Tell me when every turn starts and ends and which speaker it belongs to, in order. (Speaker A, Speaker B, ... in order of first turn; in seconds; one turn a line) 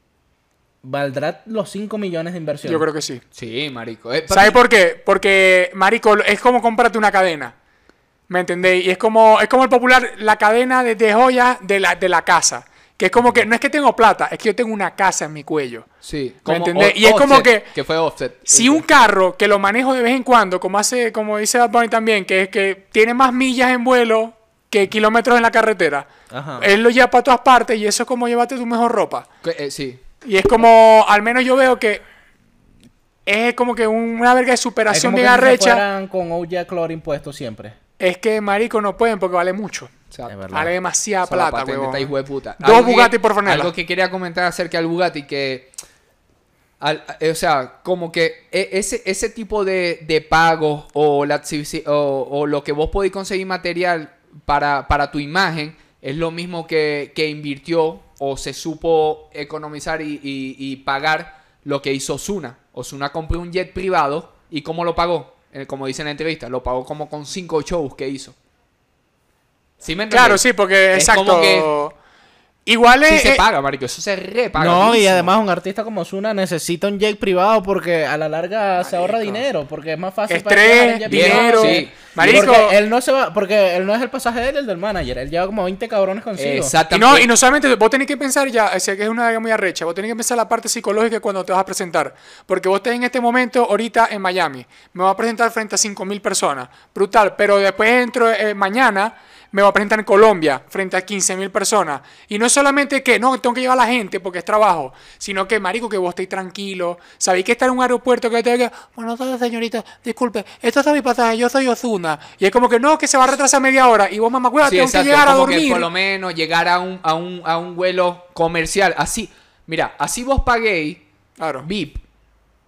Speaker A: 0.8-2.9
Speaker B: 2.6-3.2
Speaker C: 3.3-4.6
Speaker B: 4.3-7.5
Speaker B: 8.3-15.9
Speaker C: 16.0-18.8
Speaker B: 16.4-17.7
Speaker B: 18.5-29.3
Speaker A: 26.3-26.7
Speaker C: 29.4-30.0
Speaker B: 30.2-32.0
Speaker B: 33.2-35.8
Speaker A: 34.9-37.8
Speaker B: 38.0-39.9
Speaker A: 40.3-40.7
Speaker B: 40.5-43.7
Speaker C: 41.2-45.7
Speaker C: 46.8-68.3
Speaker C: 69.8-71.7
Speaker B: 70.1-71.9
Speaker B: 72.7-73.4
Speaker C: 73.0-75.3
Speaker A: 74.5-86.7
Speaker B: 78.8-79.4
Speaker B: 80.3-82.8
Speaker C: 81.1-82.5
Speaker C: 86.4-87.3
Speaker B: 86.9-115.9
Speaker C: 114.6-121.0
Speaker B: 121.4-121.7
Speaker C: 121.6-122.0